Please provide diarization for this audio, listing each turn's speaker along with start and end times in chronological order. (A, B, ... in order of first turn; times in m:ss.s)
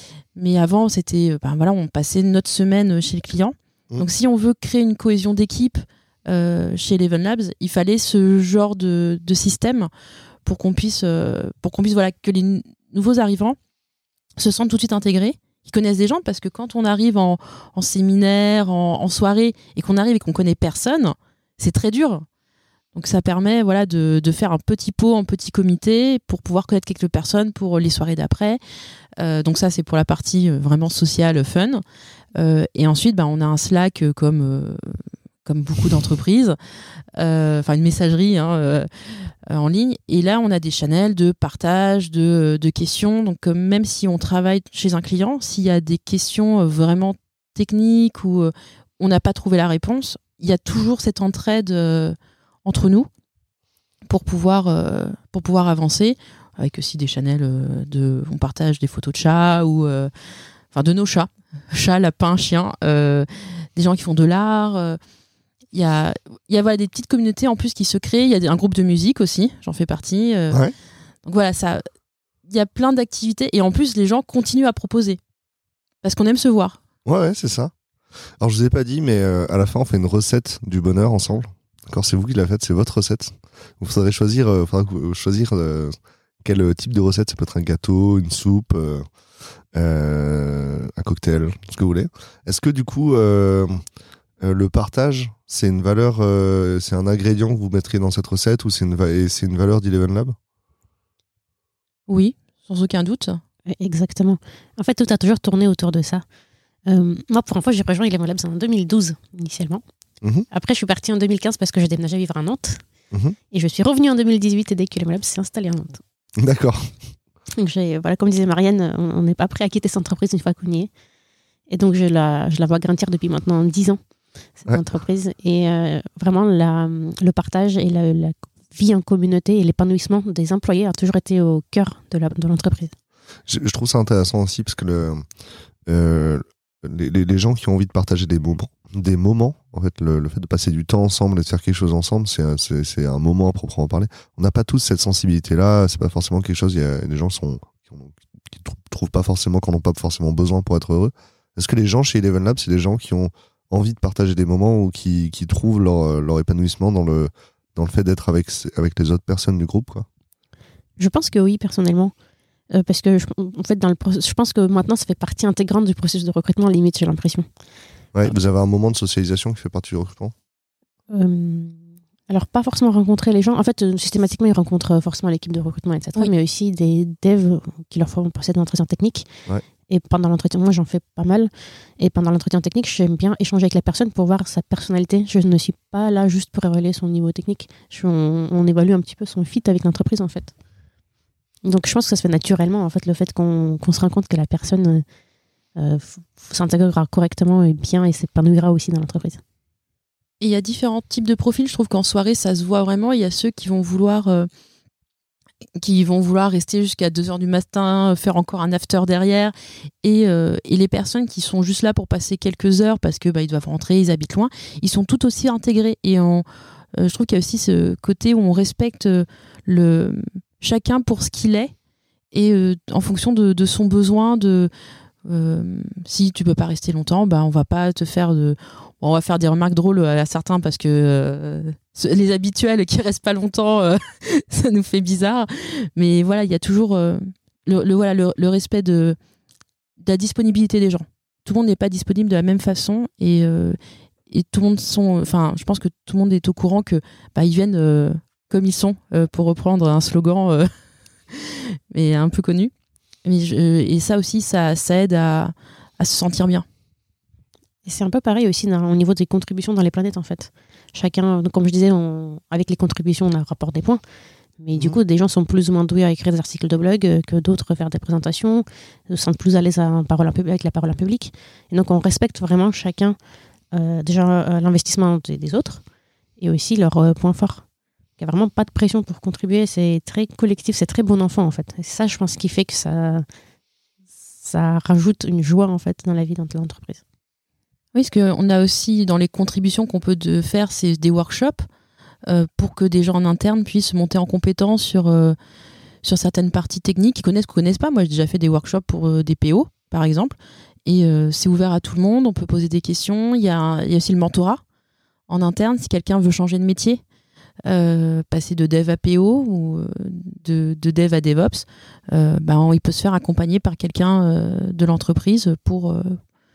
0:00.3-0:09.9 A
0:10.4-0:13.6 A
0:14.4-0:22.2 A
0:22.9-0:28.6 A
0:29.2-0:31.8 A
0:32.3-0:36.6 A
0:37.1-0:53.1 A
0:54.1-1:00.1 A
1:00.7-1:05.0 A
1:05.7-1:10.6 A
1:11.2-1:11.8 A
1:12.5-1:15.2 A
1:16.0-1:16.8 A
1:17.0-1:17.7 B
1:18.4-1:29.0 B
1:29.7-1:33.8 B
1:34.4-1:40.3 B
1:42.1-1:43.4 A
1:43.7-1:46.2 C
1:46.8-1:49.8 C
1:50.5-1:52.8 C
1:53.5-1:56.0 C
1:56.4-1:57.0 B
1:57.5-2:00.9 C
2:01.7-2:04.0 C
2:04.6-2:12.9 C
2:13.5-2:15.2 B
2:15.9-2:40.0 B
2:41.0-2:42.1 C
2:42.7-2:47.5 C
2:48.1-2:50.3 B
2:51.1-2:59.3 C
2:59.9-3:10.5 C
3:11.6-3:15.0 C
3:15.8-3:19.4 C
3:20.4-3:24.5 A
3:25.8-3:41.7 A
3:42.3-3:44.7 A
3:45.2-3:59.2 A
4:00.0-4:03.8 A
4:04.3-4:10.7 A
4:11.3-4:12.7 A
4:13.2-4:16.6 A
4:17.8-4:24.0 C
4:24.6-4:33.2 C
4:33.7-4:35.8 C
4:36.4-4:37.6 C
4:38.2-4:43.2 C
4:44.4-4:47.0 C
4:47.9-4:51.6 A
4:52.2-4:55.4 A
4:56.0-5:04.6 A
5:05.3-5:07.0 A
5:07.6-5:16.2 A